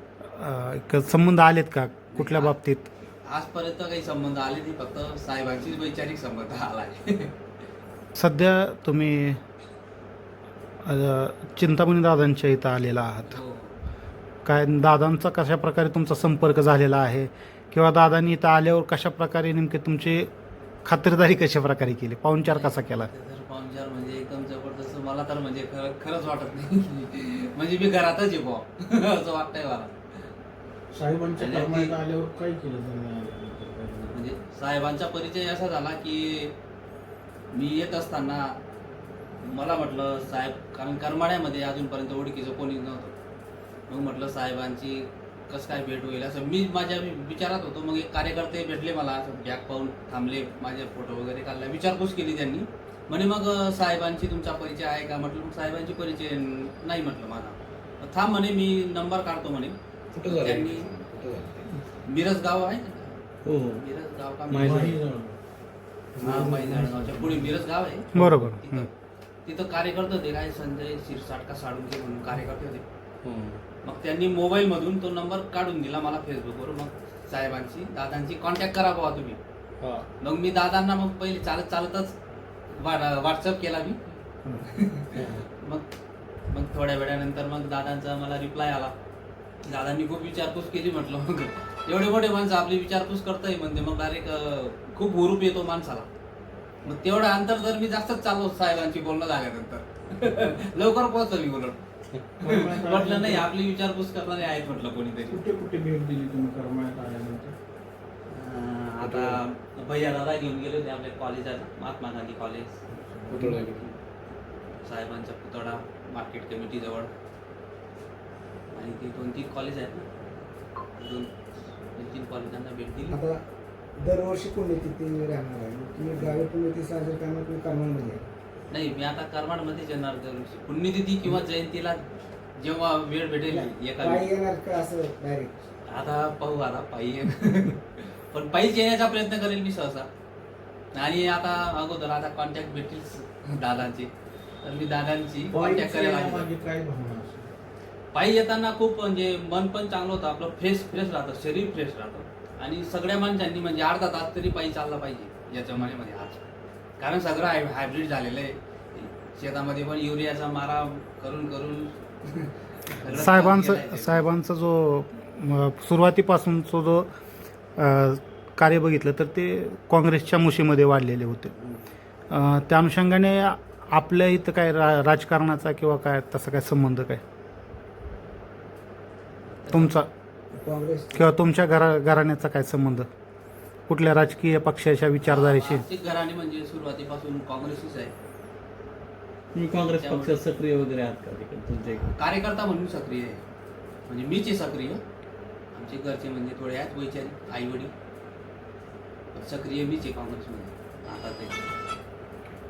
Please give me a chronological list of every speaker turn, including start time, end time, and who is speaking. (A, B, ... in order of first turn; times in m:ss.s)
0:00.2-0:02.9 A
0:02.1-0:02.5 B
0:03.3-0:07.4 B
0:08.2-0:09.4 A
0:10.8-0:13.4 A
0:13.2-0:13.8 B
0:14.4-0:20.3 A
0:20.8-0:23.1 A
0:22.4-0:30.3 B
0:30.9-0:34.2 C
0:31.4-0:32.0 B
0:34.1-0:36.5 B
0:37.5-0:38.5 B
0:39.4-0:43.1 B
0:43.9-1:00.9 B
1:02.0-1:05.0 B
1:03.4-1:03.8 D
1:04.5-1:05.0 D
1:04.6-1:05.4 C
1:06.1-1:07.6 C
1:06.2-1:08.9 B
1:08.1-1:08.9 A
1:08.2-1:08.4 D
1:09.4-1:12.8 B
1:13.2-1:13.6 D
1:13.8-1:19.4 B
1:19.8-1:20.0 D
1:20.2-1:22.1 B
1:22.7-1:24.0 B
1:24.7-1:25.8 B
1:25.1-1:25.4 D
1:26.5-1:28.9 B
1:29.6-1:36.1 B
1:36.8-1:41.8 B
1:42.4-1:45.4 B
1:42.4-1:43.5 C
1:45.3-1:47.6 C
1:48.3-1:52.8 B
1:53.3-1:53.8 C
1:53.3-1:53.8 D
1:54.8-1:57.1 B
1:58.7-2:00.1 B
2:01.0-2:01.3 B
2:01.9-2:03.2 B
2:03.1-2:03.4 E
2:04.0-2:08.2 E
2:06.2-2:06.5 B
2:08.7-2:12.0 B
2:12.6-2:14.3 B
2:13.5-2:15.7 E
2:15.9-2:20.1 B
2:20.9-2:24.1 B
2:24.6-2:26.5 B
2:25.5-2:27.5 C
2:28.1-2:36.4 B
2:37.0-2:44.3 B
2:43.1-2:47.1 A
2:47.8-2:51.5 A
2:51.6-2:51.9 B
2:52.3-2:57.2 A
2:59.5-3:00.0 B
2:59.7-3:00.1 A
3:00.5-3:01.3 E
3:01.1-3:03.1 A
3:03.9-3:05.8 A
3:05.2-3:08.1 B
3:09.5-3:12.0 D
3:09.8-3:10.4 B
3:11.9-3:13.4 B
3:14.1-3:15.0 B
3:15.7-3:17.9 B
3:19.3-3:21.6 B